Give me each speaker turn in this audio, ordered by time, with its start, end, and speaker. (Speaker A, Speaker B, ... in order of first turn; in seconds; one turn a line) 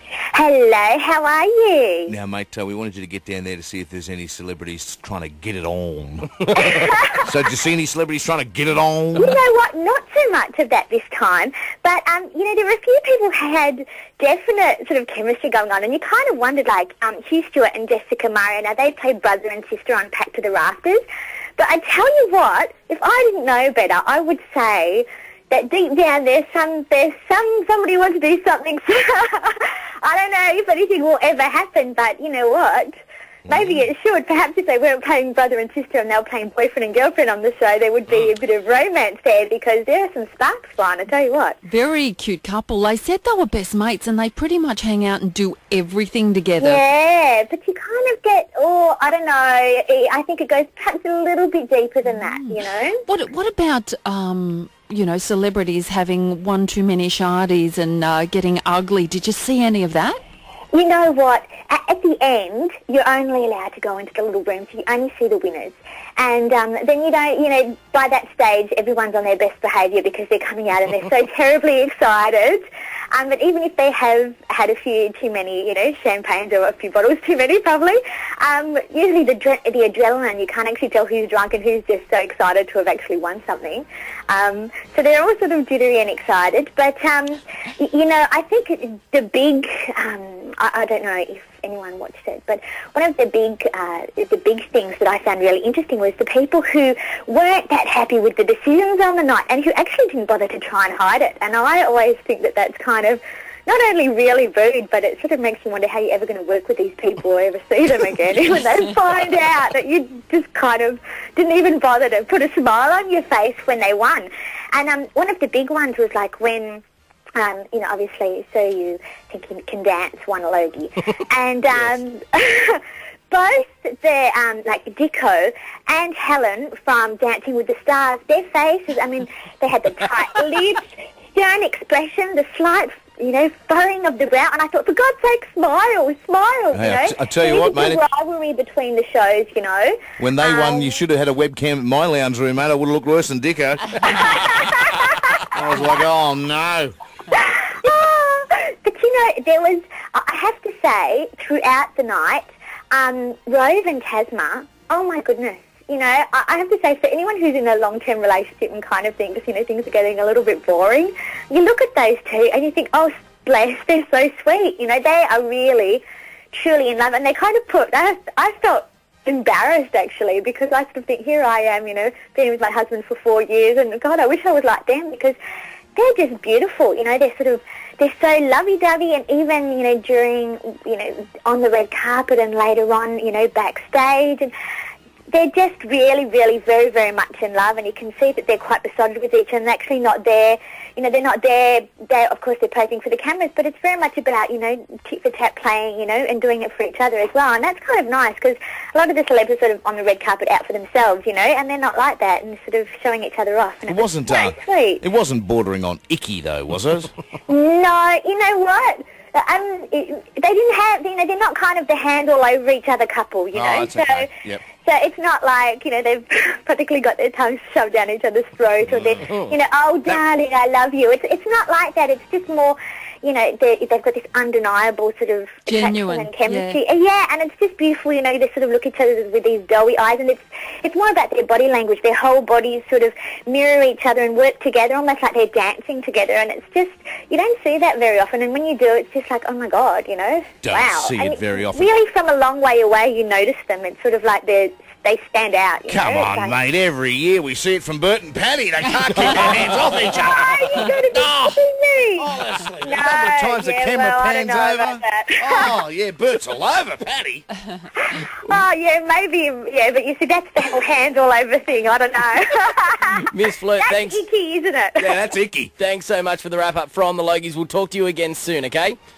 Speaker A: 0.3-2.1
Speaker B: 2.1-9.3
Speaker A: 6.5-7.3
Speaker A: 9.2-21.0
Speaker A: 21.6-41.6
Speaker C: 41.6-46.8
Speaker A: 46.6-53.0
Speaker C: 52.1-60.2
Speaker A: 60.7-116.8
Speaker A: 117.4-141.0
Speaker B: 136.7-138.0
Speaker B: 140.2-144.8
Speaker A: 144.1-145.6
Speaker B: 145.4-146.9
Speaker A: 147.3-175.4
Speaker A: 175.9-184.5
Speaker A: 185.3-205.0
Speaker B: 203.9-207.1
Speaker A: 207.5-214.3
Speaker B: 213.5-214.6
Speaker A: 214.8-246.6
Speaker C: 225.7-226.8
Speaker B: 240.6-241.9
Speaker B: 245.9-251.6
Speaker A: 249.8-255.7
Speaker B: 252.2-257.4
Speaker A: 258.0-265.2
Speaker D: 263.2-264.2
Speaker B: 265.0-265.7
Speaker D: 265.8-269.0